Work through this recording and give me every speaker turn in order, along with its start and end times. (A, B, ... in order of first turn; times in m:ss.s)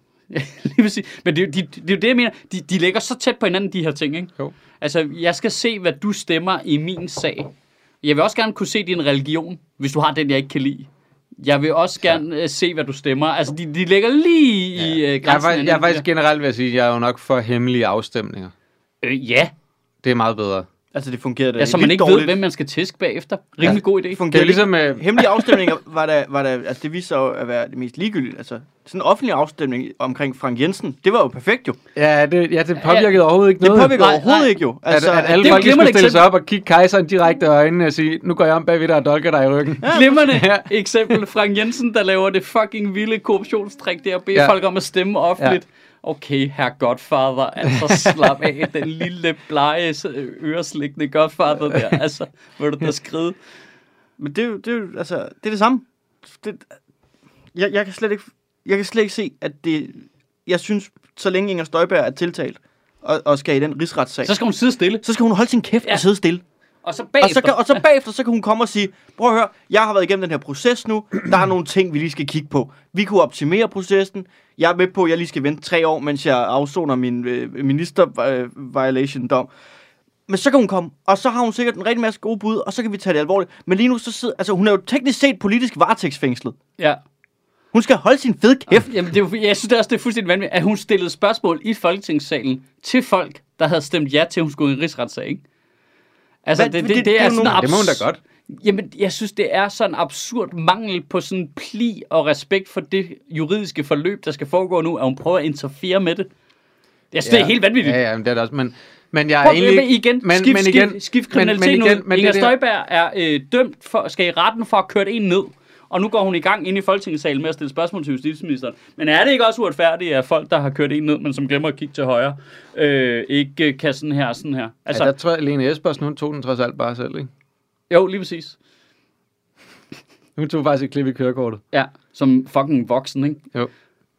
0:00.3-0:10.9 A
0:11.4-0:16.0 A
0:14.8-0:18.5 B
0:19.0-0:19.5 A
0:20.0-0:20.7 B
0:20.9-0:22.4 C
0:21.6-0:24.2 A
0:24.1-0:31.8 C
0:24.3-0:25.2 B
0:31.9-0:34.0 B
0:32.8-0:33.1 A
0:33.6-0:35.8 C
0:34.0-0:34.6 A
0:34.9-0:41.2 B
0:35.4-0:36.2 A
0:39.8-0:40.1 C
0:39.9-0:53.4 A
0:47.8-0:48.4 B
0:54.2-0:56.7 C
0:57.5-1:04.3 C
1:04.2-1:05.0 A
1:05.0-1:06.4 C
1:06.8-1:07.8 A
1:07.2-1:19.5 C
1:20.3-1:26.6 C
1:27.7-1:28.9 C
1:28.8-1:35.4 A
1:36.4-1:46.3 A
1:36.6-1:37.7 C
1:37.3-1:38.2 B
1:47.1-1:48.0 A
1:47.2-1:52.6 B
1:49.4-2:05.1 A
2:04.9-2:07.3 B
2:07.9-2:08.6 A
2:10.4-2:11.6 B
2:11.7-2:13.4 A